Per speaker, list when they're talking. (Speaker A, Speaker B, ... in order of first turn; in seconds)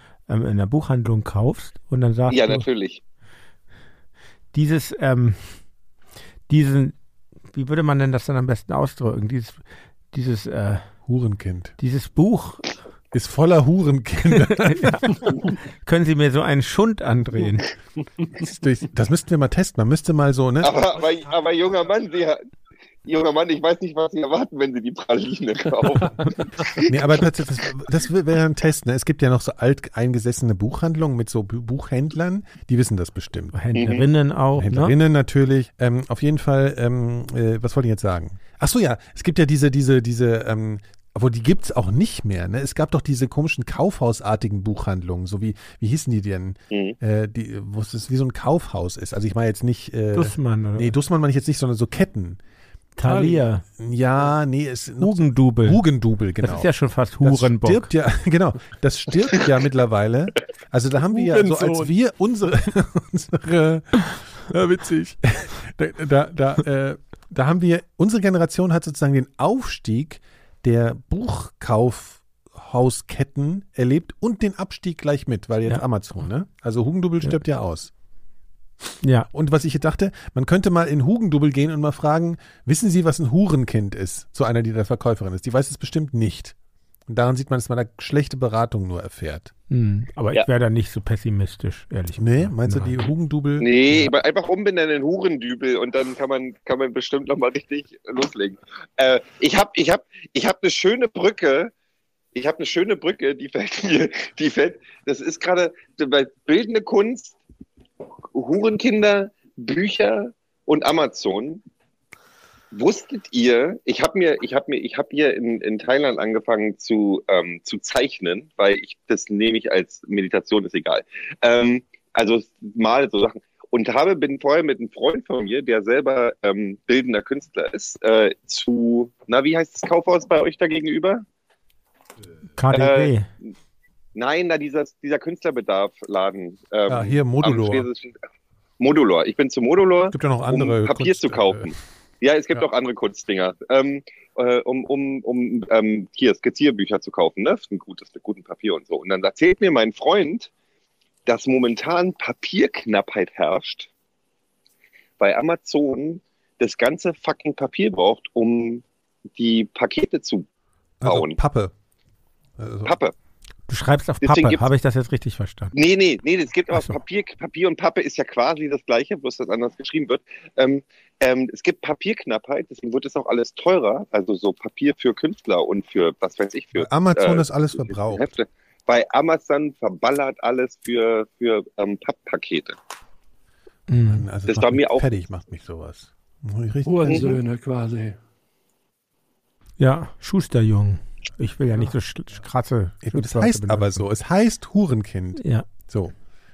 Speaker A: 0.3-2.6, 4.5-5.6, 6.5-7.0, 7.5-9.6, 10.1-10.9, 11.8-12.7, 14.3-17.7, 33.5-35.0, 50.1-51.0, 53.0-53.6, 55.0-55.8, 56.4-57.9, 79.0-79.3, 89.7-93.0, 132.6-133.3, 163.7-165.7, 166.7-167.0, 183.9-184.3, 189.8-194.0, 195.4-195.7
Speaker B: 2.3-3.0, 20.6-22.4, 23.1-26.9, 33.8-34.0, 93.6-101.7, 102.3-107.4, 108.3-111.6, 112.7-131.2, 132.7-133.1, 134.2-138.2, 138.8-150.5, 151.3-153.9, 155.2-158.8, 159.4-160.5, 161.0-161.4, 162.8-163.1, 164.2-164.7, 165.7-182.8, 184.5-185.1
Speaker C: 11.1-11.8, 13.1-15.3, 18.4-20.8, 26.9-33.6, 34.6-52.4, 53.8-77.9, 79.3-86.5, 87.1-89.5, 92.2-94.1, 136.9-137.9, 140.1-141.7, 161.0-161.7, 162.6-162.9, 176.8-178.3, 184.1-187.3, 193.0-196.1
Speaker D: 53.0-53.5, 61.1-61.9, 186.8-188.2